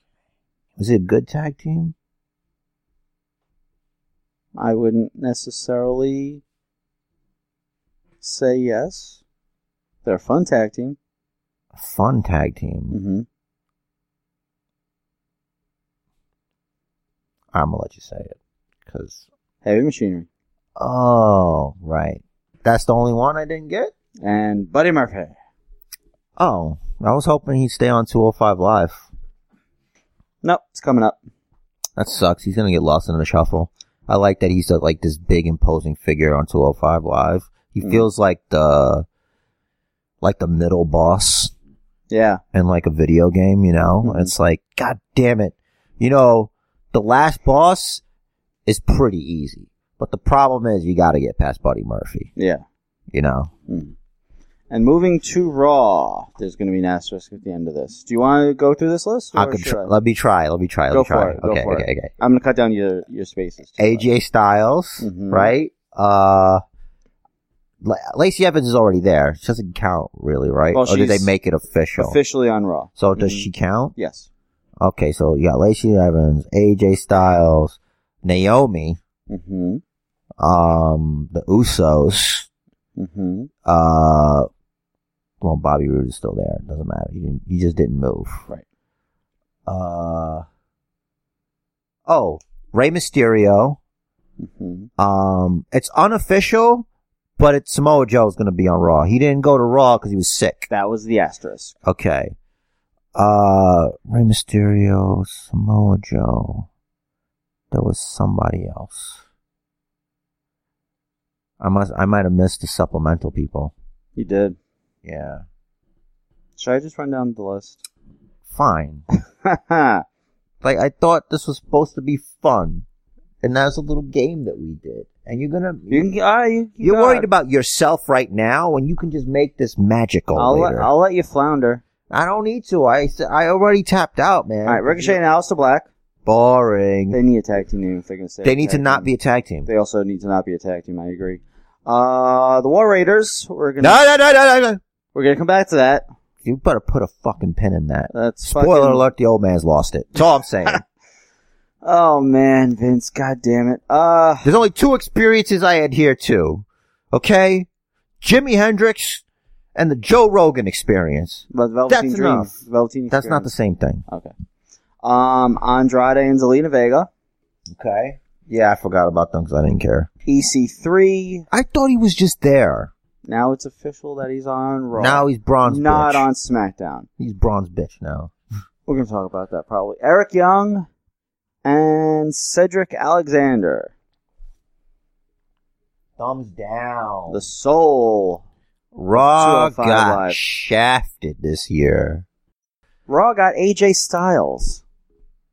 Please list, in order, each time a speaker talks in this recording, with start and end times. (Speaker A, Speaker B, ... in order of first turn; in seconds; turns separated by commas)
Speaker A: 0.8-1.9, Speaker B: 4.5-6.4, Speaker B: 8.2-9.2, Speaker B: 10.1-11.0, Speaker A: 11.8-13.0, Speaker B: 12.9-13.3, Speaker A: 17.5-19.2, Speaker B: 19.6-20.3, Speaker A: 20.8-23.9, Speaker B: 24.2-25.4, Speaker A: 26.4-29.1, Speaker B: 30.4-31.2, Speaker A: 32.0-39.0, Speaker B: 37.8-38.1, Speaker A: 40.2-41.5, Speaker B: 42.1-42.4, Speaker A: 42.5-48.0, Speaker B: 44.0-44.3, Speaker A: 48.7-52.3, Speaker B: 52.4-52.6, Speaker A: 53.1-53.5, Speaker B: 53.7-53.9, Speaker B: 54.7-59.9, Speaker A: 59.3-62.1, Speaker B: 60.9-64.1, Speaker A: 63.8-66.6, Speaker B: 65.0-65.5, Speaker A: 67.8-72.2, Speaker B: 70.7-71.3, Speaker B: 72.0-74.3, Speaker A: 73.0-73.9, Speaker A: 74.8-79.0, Speaker B: 79.3-79.8, Speaker A: 80.4-82.5, Speaker B: 83.0-83.5, Speaker A: 83.7-84.5, Speaker A: 85.4-88.5, Speaker A: 89.7-90.5, Speaker A: 92.1-93.8, Speaker B: 94.4-94.9, Speaker A: 95.0-96.9, Speaker A: 97.4-100.7, Speaker B: 100.7-101.8, Speaker A: 101.8-102.3, Speaker A: 103.2-106.7, Speaker A: 107.7-109.2, Speaker A: 111.6-113.7, Speaker B: 114.2-114.6, Speaker A: 115.0-115.4, Speaker B: 116.6-117.8, Speaker A: 118.5-119.0, Speaker B: 119.4-120.0, Speaker A: 120.6-122.8, Speaker A: 123.4-126.1, Speaker B: 125.9-127.3, Speaker A: 126.8-130.9, Speaker B: 130.3-131.8, Speaker A: 132.1-135.2, Speaker B: 134.7-135.9, Speaker A: 136.3-137.2, Speaker B: 137.1-139.1, Speaker A: 138.4-139.7, Speaker B: 139.7-144.0, Speaker A: 143.8-144.8, Speaker B: 145.1-146.1, Speaker A: 146.4-150.8, Speaker B: 148.1-149.0, Speaker B: 151.8-154.5, Speaker A: 154.4-157.7, Speaker A: 158.2-159.2, Speaker A: 159.8-162.5, Speaker B: 161.5-163.5, Speaker A: 163.1-164.0, Speaker B: 164.1-164.3, Speaker B: 165.0-167.1, Speaker A: 167.7-170.1, Speaker B: 170.3-171.5, Speaker A: 171.5-172.9, Speaker B: 173.2-177.1, Speaker A: 174.9-176.3, Speaker A: 177.2-178.3, Speaker B: 178.9-180.9, Speaker B: 181.6-183.9, Speaker A: 186.2-187.4, Speaker B: 187.3-188.4, Speaker A: 188.9-192.2, Speaker B: 189.1-190.4, Speaker B: 193.1-194.8